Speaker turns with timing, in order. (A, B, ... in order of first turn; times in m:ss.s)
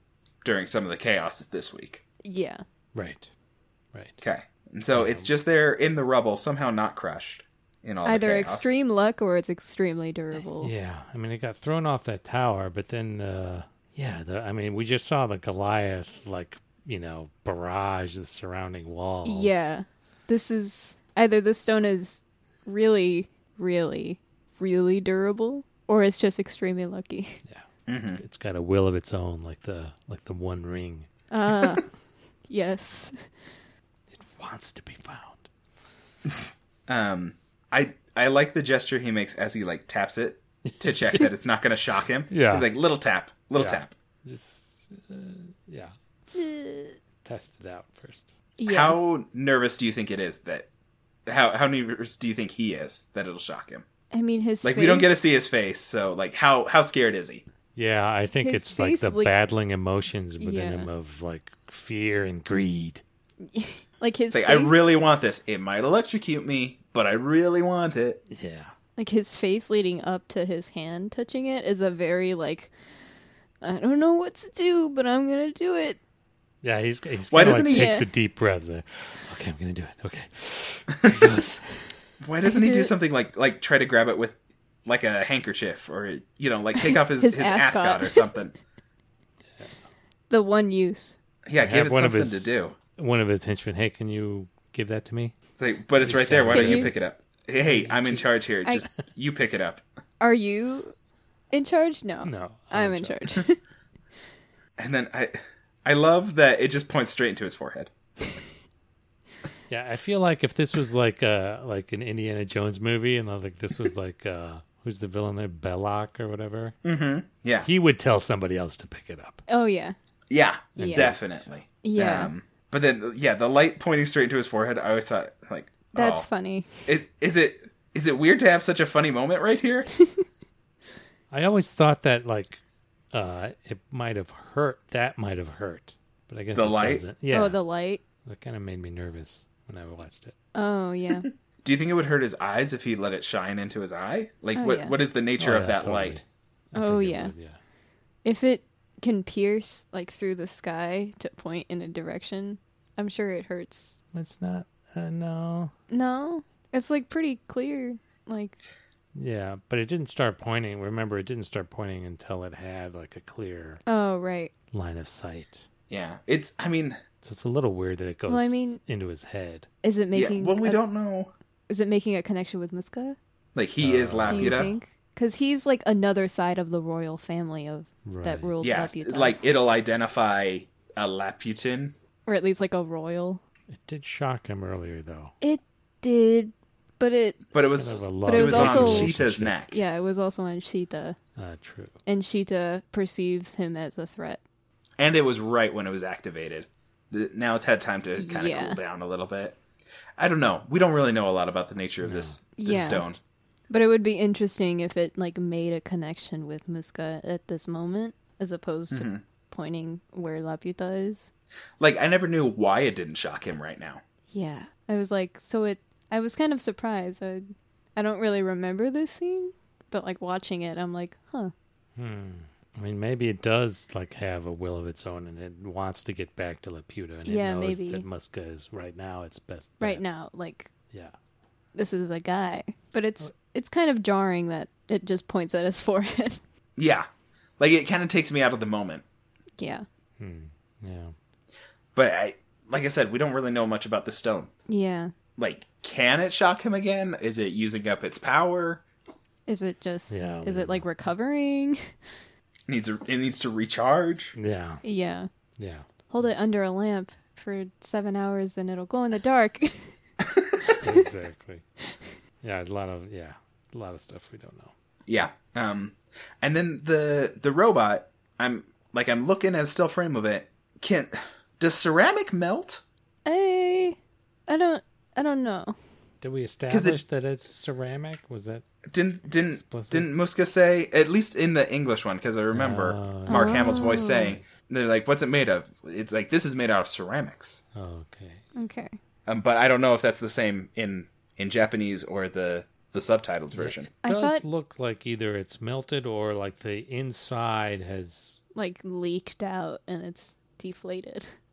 0:00.4-0:02.0 A
0:02.2-0:02.6 B
0:02.9-0:03.3 C
0:03.9-0:04.2 C
0:04.2-0:08.8 A
0:04.9-0:05.3 C
0:08.0-0:10.7 B
0:10.3-0:19.7 C
0:19.2-0:27.4 B
0:27.4-0:31.1 C
0:27.9-0:28.2 A
0:31.3-0:31.9 B
0:32.5-0:33.1 B
0:34.1-0:35.5 C
0:36.3-0:43.9 A
0:40.6-0:41.3 C
0:42.3-0:42.7 C
0:43.5-0:45.9 C
0:46.3-0:47.0 B
0:47.2-0:48.3 C
0:48.6-0:49.0 B
0:48.7-0:50.7 A
0:51.2-0:53.8 A
0:54.1-0:55.1 B
0:54.6-0:57.4 A
0:57.7-1:03.0 C
0:58.4-0:59.3 B
1:00.4-1:00.9 B
1:03.5-1:04.8 B
1:04.3-1:08.2 A
1:08.3-1:08.7 C
1:09.0-1:12.7 B
1:13.6-1:16.0 B
1:16.6-1:21.9 C
1:17.3-1:17.9 A
1:17.4-1:18.1 B
1:22.2-1:28.5 A
1:22.4-1:22.9 B
1:26.8-1:28.3 B
1:29.5-1:29.8 C
1:30.3-1:31.2 B
1:31.4-1:32.8 A
1:31.6-1:35.3 C
1:35.6-1:39.8 A
1:36.0-1:37.0 C
1:36.5-1:36.9 B
1:37.6-1:38.4 C
1:38.4-1:38.9 B
1:40.2-1:40.9 B
1:41.5-1:43.6 B
1:42.2-1:43.2 C
1:44.8-1:47.9 A
1:49.7-1:56.8 C
1:56.8-1:57.7 A
1:57.6-1:59.4 C
1:59.5-1:59.9 B
2:00.3-2:06.3 A
2:00.8-2:01.2 C
2:00.8-2:01.2 B
2:01.8-2:02.3 B
2:05.9-2:06.9 B
2:06.8-2:09.9 A
2:11.3-2:12.6 C
2:13.1-2:17.6 C
2:16.5-2:17.0 A
2:17.3-2:18.0 B
2:18.2-2:20.3 C
2:20.5-2:21.3 B
2:21.6-2:26.2 A
2:24.6-2:25.0 B
2:25.4-2:27.6 C
2:26.8-2:27.3 B
2:28.2-2:34.0 B
2:34.1-2:35.7 C
2:35.9-2:38.6 B
2:39.2-2:43.8 C
2:43.8-2:44.5 B
2:44.7-2:45.6 C
2:45.9-2:47.0 A
2:47.2-2:49.7 C
2:48.3-2:48.8 B
2:49.8-2:50.8 B
2:50.1-2:51.3 A
2:51.7-2:53.2 B
2:53.5-2:54.7 A
2:53.8-2:54.8 C
2:54.2-2:59.4 B
2:58.0-2:58.5 C
2:58.6-3:01.9 A
3:02.2-3:03.4 B
3:03.7-3:05.3 C
3:05.4-3:07.5 B
3:07.5-3:09.8 A
3:07.8-3:09.6 C
3:08.2-3:09.1 B
3:09.7-3:11.2 B
3:11.4-3:12.0 C
3:12.0-3:14.4 B
3:15.0-3:19.6 A
3:18.2-3:18.8 B
3:20.2-3:23.2 A
3:22.0-3:22.4 C
3:22.6-3:23.1 B
3:23.7-3:31.3 B
3:28.9-3:29.2 A
3:31.8-3:34.0 A
3:34.3-3:37.4 B
3:38.0-3:41.5 B
3:42.0-3:50.0 C
3:47.2-3:48.0 B
3:49.8-3:50.7 B
3:51.7-3:56.4 B
3:56.8-3:57.0 A
3:57.6-3:59.0 A
3:59.6-3:59.8 B
4:00.2-4:01.1 C
4:01.9-4:04.5 A
4:04.7-4:05.1 B
4:05.4-4:08.8 A
4:09.5-4:11.8 B
4:10.1-4:10.9 C
4:12.7-4:14.4 A
4:14.4-4:14.8 C
4:14.8-4:15.3 B
4:15.6-4:15.9 C
4:16.1-4:20.0 B
4:20.6-4:21.0 B
4:20.8-4:21.6 C
4:22.4-4:24.7 C
4:25.1-4:32.8 A
4:33.2-4:34.0 B
4:34.5-4:35.7 B
4:36.2-4:38.6 C
4:36.7-4:37.0 A
4:38.9-4:47.6 A
4:39.5-4:40.1 C
4:42.5-4:44.4 C
4:43.3-4:44.4 B
4:47.7-4:48.4 C
4:48.5-4:48.9 B
4:49.3-4:53.9 A
4:53.5-4:58.4 C
4:54.0-4:54.4 B
4:58.5-5:01.3 B